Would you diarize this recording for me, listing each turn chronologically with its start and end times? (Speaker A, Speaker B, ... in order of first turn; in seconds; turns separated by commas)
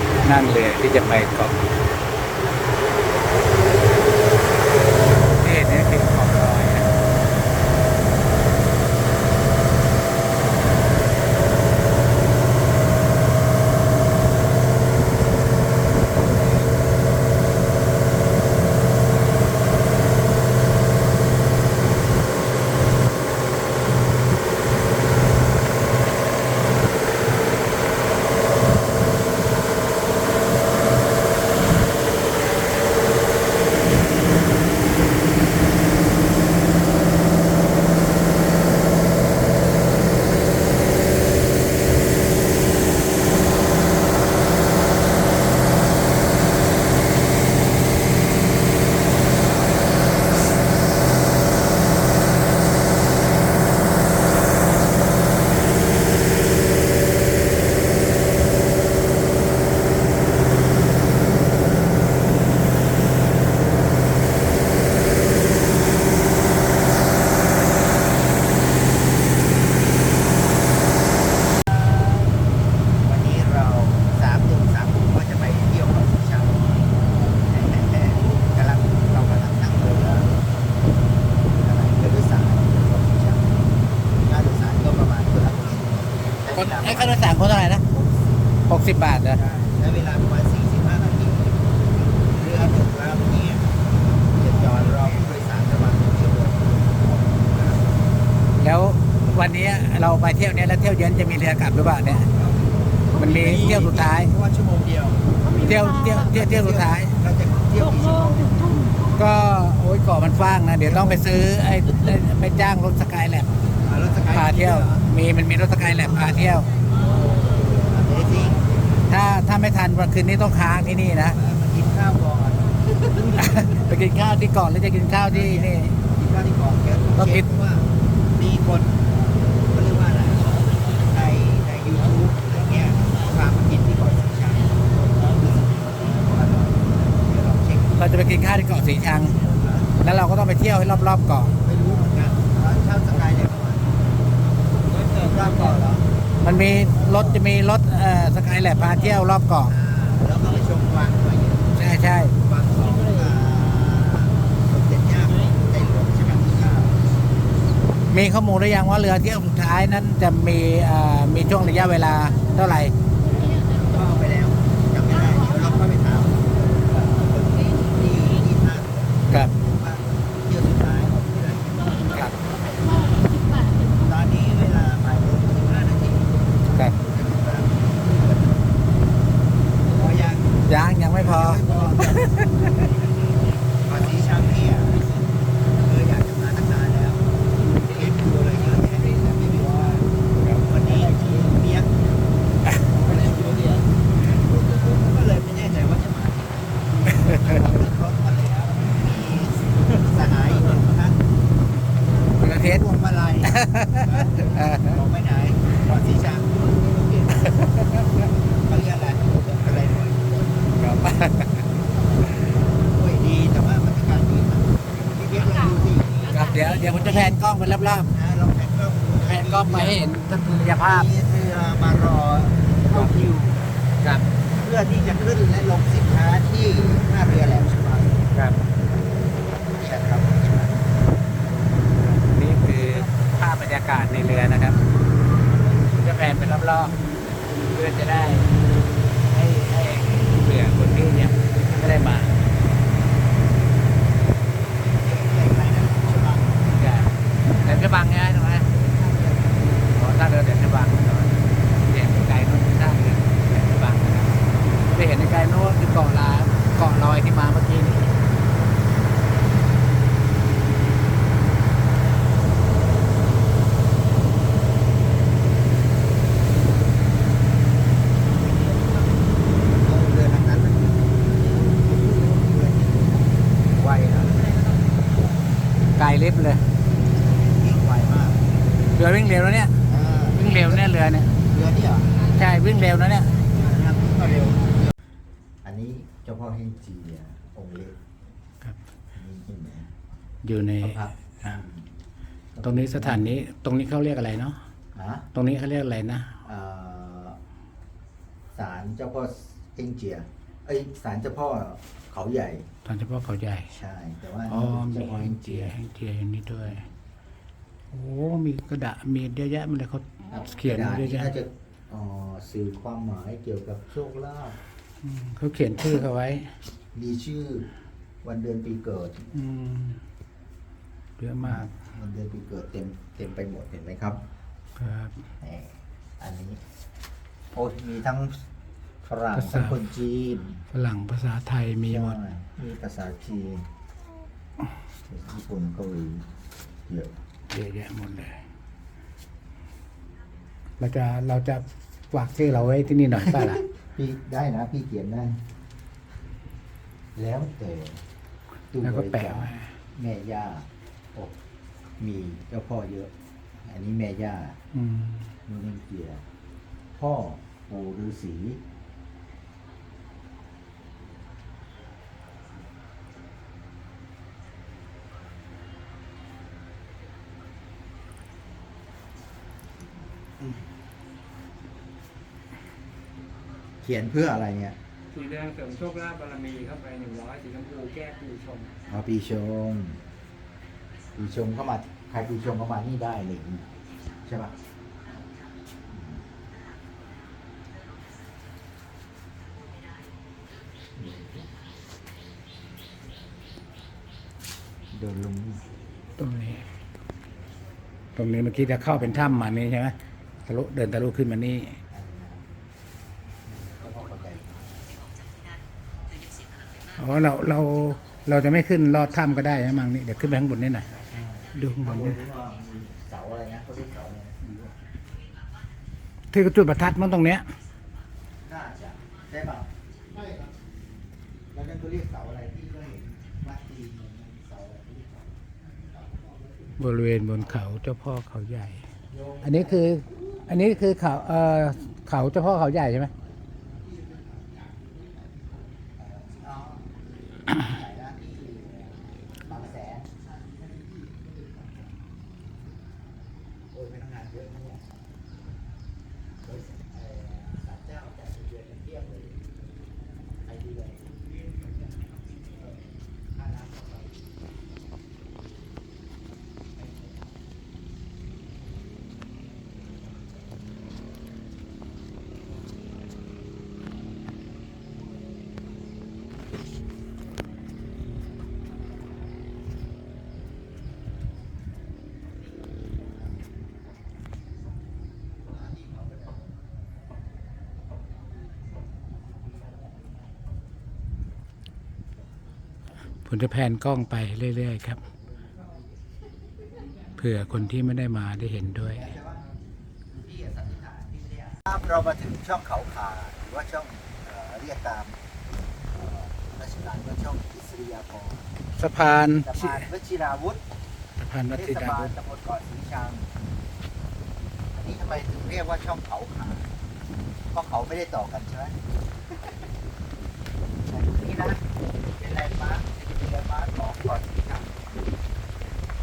Speaker A: 0.2-1.6, Speaker A: 5.3-6.9, Speaker B: 73.0-80.4, Speaker B: 81.5-83.6, Speaker B: 84.2-88.6, Speaker A: 86.6-87.8, Speaker A: 88.7-89.4, Speaker B: 89.3-93.7, Speaker B: 94.3-98.0, Speaker A: 98.6-102.3, Speaker B: 103.1-105.5, Speaker A: 103.2-104.3, Speaker A: 105.6-107.1, Speaker B: 106.2-108.8, Speaker A: 109.2-113.5, Speaker B: 110.9-111.2, Speaker B: 113.8-115.0, Speaker A: 114.3-116.7, Speaker B: 116.3-119.0, Speaker A: 119.1-121.4, Speaker B: 121.3-123.9, Speaker A: 123.3-125.9, Speaker B: 125.3-129.1, Speaker A: 127.2-127.5, Speaker B: 129.7-138.3, Speaker A: 138.0-139.4, Speaker B: 139.4-139.9, Speaker A: 140.0-141.5, Speaker B: 141.6-144.0, Speaker B: 145.0-146.1, Speaker A: 146.4-149.8, Speaker B: 147.0-147.4, Speaker B: 149.7-157.0, Speaker A: 151.8-152.3, Speaker A: 158.1-162.9, Speaker B: 163.3-173.1, Speaker B: 173.9-178.6, Speaker B: 179.8-182.4, Speaker A: 180.7-182.9, Speaker B: 183.8-185.1, Speaker B: 185.7-187.2, Speaker B: 187.8-191.9, Speaker B: 192.9-201.2, Speaker A: 197.2-197.5, Speaker A: 202.4-202.9, Speaker B: 202.4-207.4, Speaker A: 203.4-205.0, Speaker A: 207.4-208.2, Speaker B: 208.6-210.7, Speaker A: 210.8-211.7, Speaker B: 212.7-216.3, Speaker A: 216.3-218.1, Speaker B: 216.9-217.4, Speaker B: 218.1-220.0, Speaker A: 219.3-221.1, Speaker B: 220.7-223.6, Speaker A: 224.0-224.3, Speaker B: 224.6-228.3, Speaker B: 229.7-230.9, Speaker A: 232.0-234.8, Speaker A: 235.9-237.0, Speaker A: 237.7-238.5, Speaker A: 239.3-242.4, Speaker B: 244.8-246.6, Speaker A: 246.8-248.7, Speaker A: 249.9-258.1, Speaker B: 269.6-274.5, Speaker A: 276.0-276.6, Speaker B: 277.4-278.5, Speaker A: 278.9-279.7, Speaker B: 279.8-282.2, Speaker A: 280.3-281.3, Speaker A: 282.4-283.3, Speaker B: 283.6-284.9, Speaker B: 285.6-288.0, Speaker B: 289.1-289.9, Speaker A: 290.4-291.5, Speaker B: 290.8-291.9, Speaker B: 292.5-293.4, Speaker A: 292.6-294.6, Speaker B: 294.9-295.3, Speaker A: 295.3-296.4, Speaker B: 296.4-297.4, Speaker B: 298.6-302.7, Speaker A: 302.9-303.7, Speaker B: 303.7-305.7, Speaker A: 304.5-306.8, Speaker A: 307.9-311.3, Speaker B: 310.3-314.6, Speaker A: 315.0-316.5, Speaker B: 316.9-317.7, Speaker B: 318.2-319.4, Speaker A: 319.4-320.0, Speaker A: 321.2-321.7, Speaker B: 321.4-324.2, Speaker A: 324.8-325.1, Speaker B: 325.4-326.6, Speaker B: 327.5-328.4, Speaker B: 329.0-330.6, Speaker A: 329.4-329.8, Speaker A: 330.7-332.2, Speaker B: 331.9-333.7, Speaker B: 335.1-336.3, Speaker B: 336.9-337.1, Speaker A: 337.5-338.4, Speaker A: 340.8-343.6, Speaker B: 343.3-345.4, Speaker B: 347.1-348.0, Speaker B: 348.7-351.4, Speaker A: 348.8-349.7, Speaker B: 352.0-353.1, Speaker B: 353.6-354.6, Speaker A: 354.7-355.3, Speaker B: 355.5-356.2, Speaker B: 357.0-358.6, Speaker B: 373.8-374.8, Speaker C: 375.1-378.8, Speaker B: 378.9-380.0, Speaker B: 381.2-383.7, Speaker B: 384.3-384.5, Speaker B: 385.9-386.2, Speaker B: 391.0-391.5, Speaker B: 394.9-395.7, Speaker A: 396.2-396.6, Speaker A: 398.2-399.9, Speaker B: 398.9-399.4, Speaker A: 400.5-401.8, Speaker B: 401.9-402.5, Speaker B: 403.5-404.8, Speaker A: 407.0-410.9, Speaker B: 411.1-414.7, Speaker A: 411.6-412.2, Speaker A: 416.3-417.4, Speaker B: 418.4-420.5, Speaker B: 421.5-426.7, Speaker A: 426.8-428.8, Speaker B: 429.1-430.4, Speaker A: 429.4-433.1, Speaker B: 433.8-435.2, Speaker B: 436.0-436.9, Speaker B: 437.5-440.1, Speaker B: 443.7-444.9, Speaker B: 446.4-449.4, Speaker B: 450.4-451.3, Speaker B: 452.4-452.8, Speaker B: 453.3-454.3, Speaker B: 456.8-457.2, Speaker B: 475.5-476.4, Speaker A: 483.3-485.0, Speaker A: 487.2-489.1, Speaker B: 488.9-489.5, Speaker B: 490.1-495.2, Speaker B: 495.9-498.5, Speaker A: 498.8-499.8, Speaker B: 499.2-500.6, Speaker A: 501.2-502.1, Speaker B: 501.5-503.3, Speaker B: 504.8-506.7, Speaker B: 507.5-508.8, Speaker B: 510.9-511.6, Speaker B: 512.2-514.8